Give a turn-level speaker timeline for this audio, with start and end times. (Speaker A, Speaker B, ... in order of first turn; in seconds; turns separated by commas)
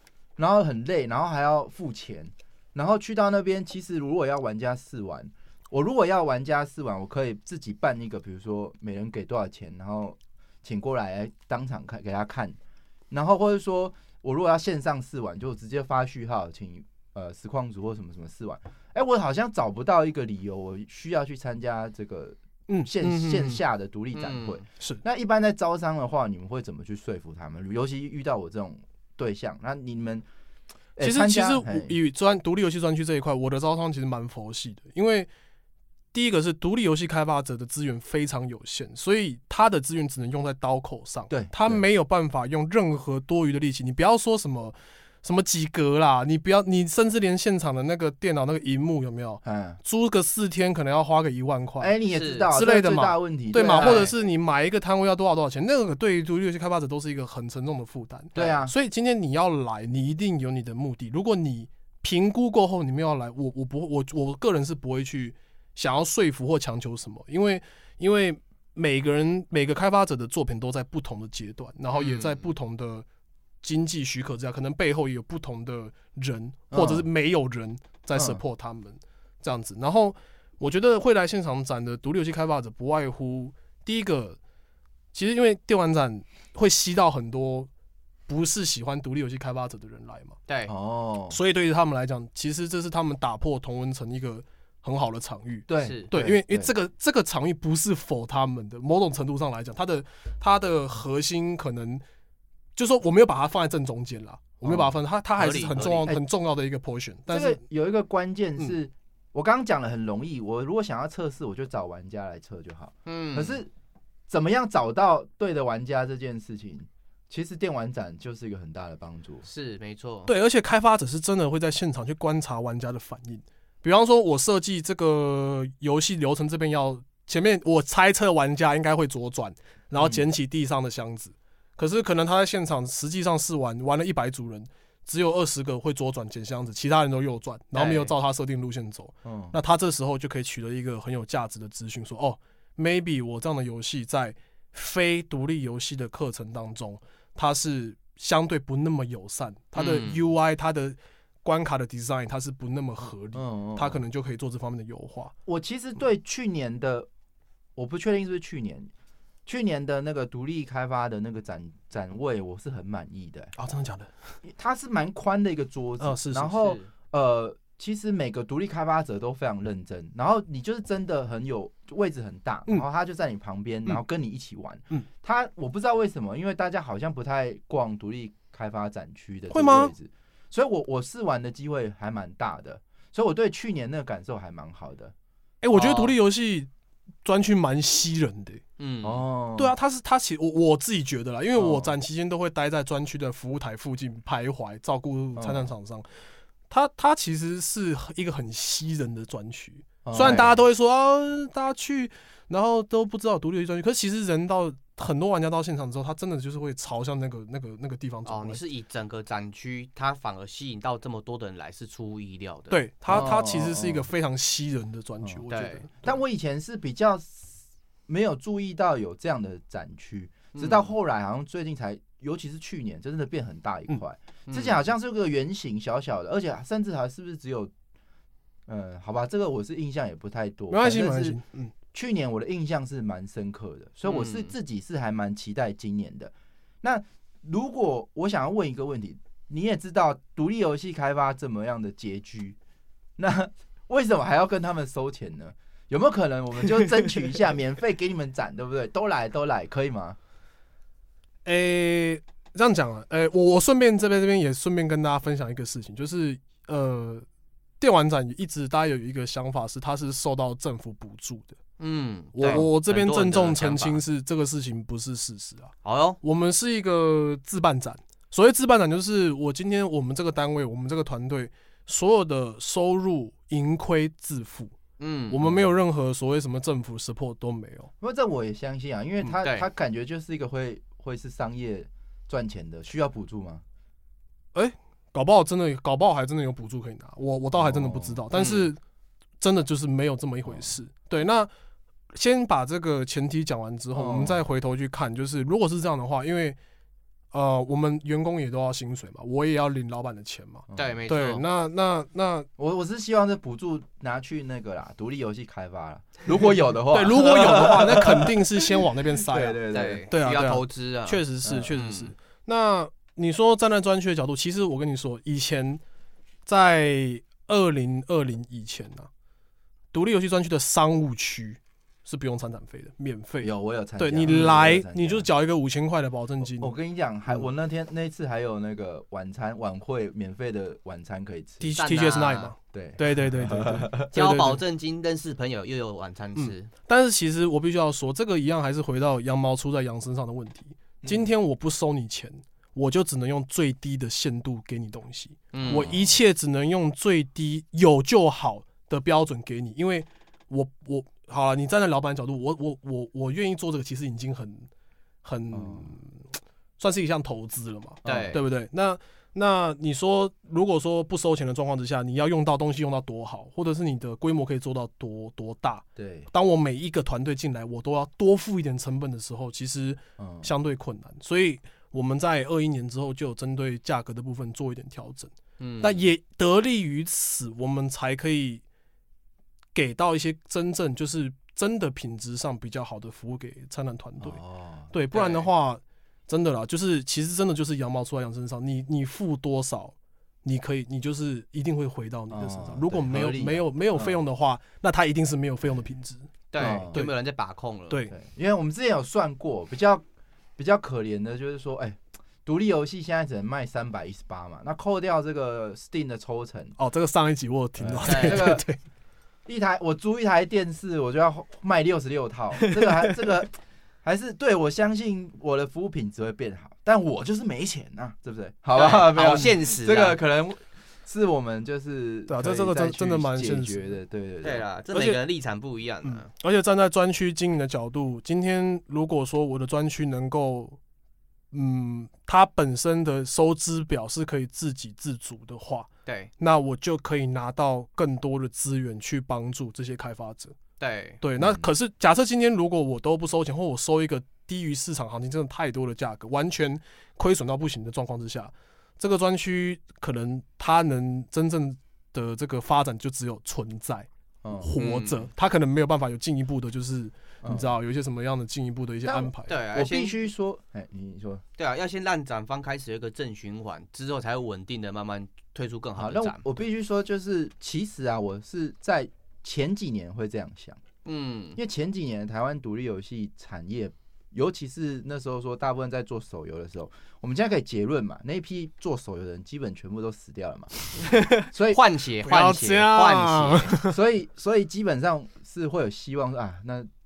Speaker A: 0.4-12.6, Speaker A: 13.1-30.2, Speaker B: 22.7-23.6, Speaker C: 24.1-24.6, Speaker A: 31.0-31.9, Speaker B: 31.0-35.3, Speaker B: 36.1-51.9, Speaker A: 41.3-41.8, Speaker A: 49.4-49.8, Speaker A: 51.8-54.1, Speaker C: 52.1-52.5, Speaker B: 52.5-73.0, Speaker C: 53.8-54.1, Speaker A: 58.3-58.7, Speaker C: 71.9-72.5, Speaker B: 73.6-84.4, Speaker A: 76.7-77.0, Speaker A: 78.1-78.4, Speaker B: 85.1-87.7, Speaker B: 88.3-90.3, Speaker C: 90.5-90.7, Speaker A: 90.7-91.4, Speaker B: 91.3-102.0, Speaker A: 95.7-96.7, Speaker C: 95.8-96.1, Speaker B: 102.8-107.6, Speaker A: 104.6-104.9, Speaker C: 105.4-106.1, Speaker A: 107.3-113.7, Speaker C: 113.1-113.6, Speaker A: 114.3-119.5, Speaker C: 119.4-120.3, Speaker B: 120.3-155.3, Speaker A: 130.0-130.2, Speaker C: 137.7-138.1, Speaker A: 139.2-139.6, Speaker C: 149.8-150.2, Speaker A: 153.3-154.0, Speaker A: 155.4-157.1, Speaker A: 157.8-158.9, Speaker A: 159.4-163.5, Speaker B: 163.6-164.1, Speaker A: 164.4-185.1, Speaker B: 166.0-166.6, Speaker C: 166.5-166.9, Speaker B: 179.5-179.9, Speaker B: 185.6-186.7, Speaker A: 185.8-186.1, Speaker B: 187.2-188.6, Speaker C: 188.8-189.2, Speaker A: 189.0-189.7, Speaker B: 189.6-196.1, Speaker A: 191.6-191.9, Speaker A: 195.3-195.7, Speaker B: 196.7-208.6, Speaker A: 200.0-200.5, Speaker C: 208.2-212.8, Speaker B: 212.7-216.0, Speaker A: 213.1-214.1, Speaker C: 215.5-215.9, Speaker A: 216.0-227.7, Speaker C: 220.5-220.9, Speaker C: 224.5-224.8, Speaker A: 228.7-231.4, Speaker B: 230.7-231.7, Speaker A: 231.9-242.6, Speaker C: 234.1-234.5, Speaker A: 243.2-250.2, Speaker B: 251.4-257.2, Speaker B: 257.8-261.6, Speaker C: 261.8-264.0, Speaker B: 262.3-274.7, Speaker C: 265.8-266.2, Speaker C: 275.0-275.4, Speaker B: 275.3-277.9, Speaker A: 275.4-275.7, Speaker A: 278.0-283.6, Speaker C: 279.2-279.6, Speaker B: 284.5-288.8, Speaker A: 287.5-288.2, Speaker C: 288.3-288.7, Speaker B: 289.4-291.5, Speaker B: 292.1-296.6, Speaker A: 293.9-294.4, Speaker B: 297.3-302.5, Speaker A: 300.7-301.0, Speaker C: 300.8-301.4, Speaker A: 302.6-310.1, Speaker B: 306.9-309.6, Speaker C: 309.7-312.1, Speaker B: 310.1-315.8, Speaker A: 311.4-311.7, Speaker B: 316.4-319.1, Speaker B: 319.9-326.7, Speaker A: 323.4-325.2, Speaker A: 326.6-331.8, Speaker B: 331.6-334.6, Speaker C: 331.8-332.5, Speaker A: 332.7-334.1, Speaker C: 334.1-336.7, Speaker B: 336.4-354.7, Speaker A: 341.0-341.3, Speaker C: 345.5-345.9, Speaker A: 345.6-346.2, Speaker B: 355.2-356.2, Speaker A: 355.5-355.9, Speaker B: 356.8-378.6, Speaker A: 358.0-358.4, Speaker C: 358.0-358.4, Speaker A: 365.9-366.3, Speaker A: 370.2-370.5, Speaker C: 375.6-376.0, Speaker B: 379.7-384.4, Speaker A: 384.2-384.9, Speaker B: 384.9-397.1, Speaker C: 385.1-385.5, Speaker A: 392.3-394.2, Speaker C: 396.5-398.0, Speaker A: 396.6-397.0, Speaker A: 398.1-400.0, Speaker A: 400.6-406.8, Speaker B: 406.8-408.8, Speaker A: 407.8-408.6, Speaker C: 408.0-408.5, Speaker A: 409.4-424.6, Speaker B: 412.7-413.1, Speaker C: 418.7-420.2, Speaker B: 422.3-423.9, Speaker C: 424.4-426.3, Speaker B: 424.9-425.2, Speaker B: 426.0-430.8, Speaker B: 431.5-440.5, Speaker C: 436.1-436.3, Speaker C: 440.8-441.2, Speaker B: 441.2-459.6, Speaker A: 441.4-441.7, Speaker A: 454.4-454.7, Speaker C: 454.8-455.3, Speaker A: 457.4-457.7, Speaker A: 459.0-461.4, Speaker C: 459.5-460.1, Speaker C: 461.6-466.4, Speaker A: 465.9-470.8, Speaker C: 471.0-471.6, Speaker A: 471.6-480.7, Speaker B: 481.0-481.5, Speaker A: 481.5-481.8, Speaker C: 481.7-483.7, Speaker B: 482.2-483.9, Speaker A: 483.9-486.9